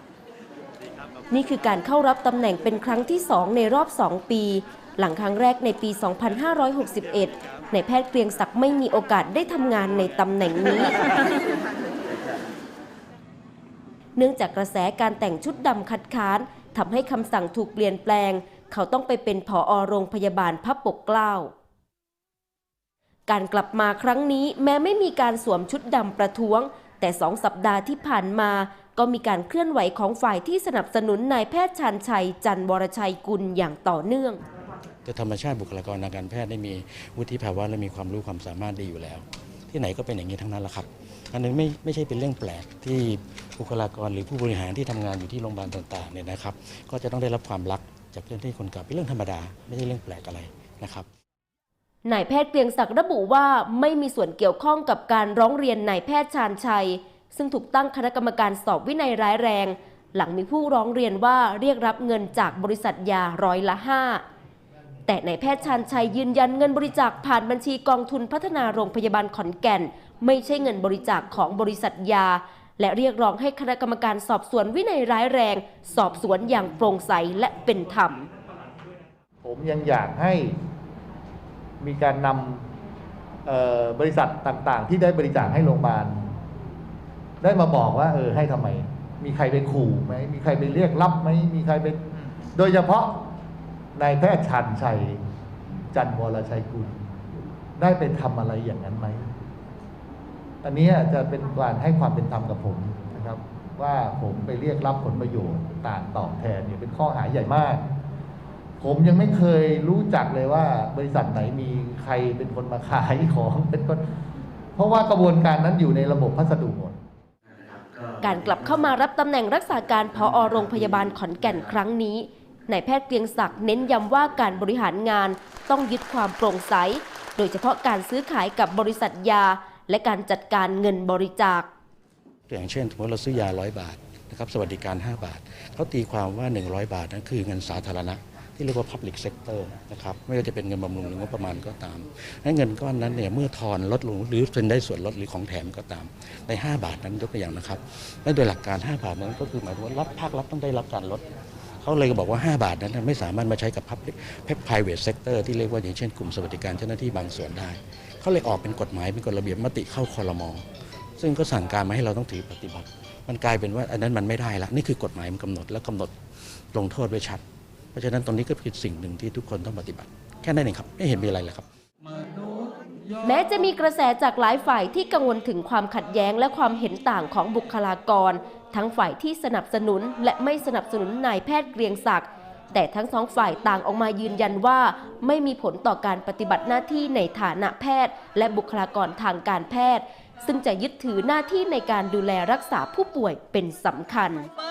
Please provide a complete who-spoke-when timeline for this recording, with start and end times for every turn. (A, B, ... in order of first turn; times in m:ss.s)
0:01.3-0:11.1 A
0:14.2-0:21.5 A
0:23.3-0:34.4 A
0:35.0-0:51.1 B
0:52.0-1:04.2 A
1:05.0-1:18.2 A
1:19.4-1:20.5 C
1:21.8-1:22.6 C
1:23.4-1:26.3 C
1:27.4-1:32.0 C
1:32.5-1:33.2 C
1:34.0-1:35.2 C
1:35.9-1:37.0 C
1:37.8-1:39.3 C
1:40.6-1:47.8 C
1:48.8-1:54.0 C
1:54.8-1:57.0 C
1:57.8-1:58.2 B
1:58.2-2:11.7 A
2:12.5-2:31.2 B
2:31.8-2:40.6 B
2:41.2-2:46.1 B
2:46.7-2:47.4 B
2:47.9-2:51.6 B
2:53.2-3:14.5 A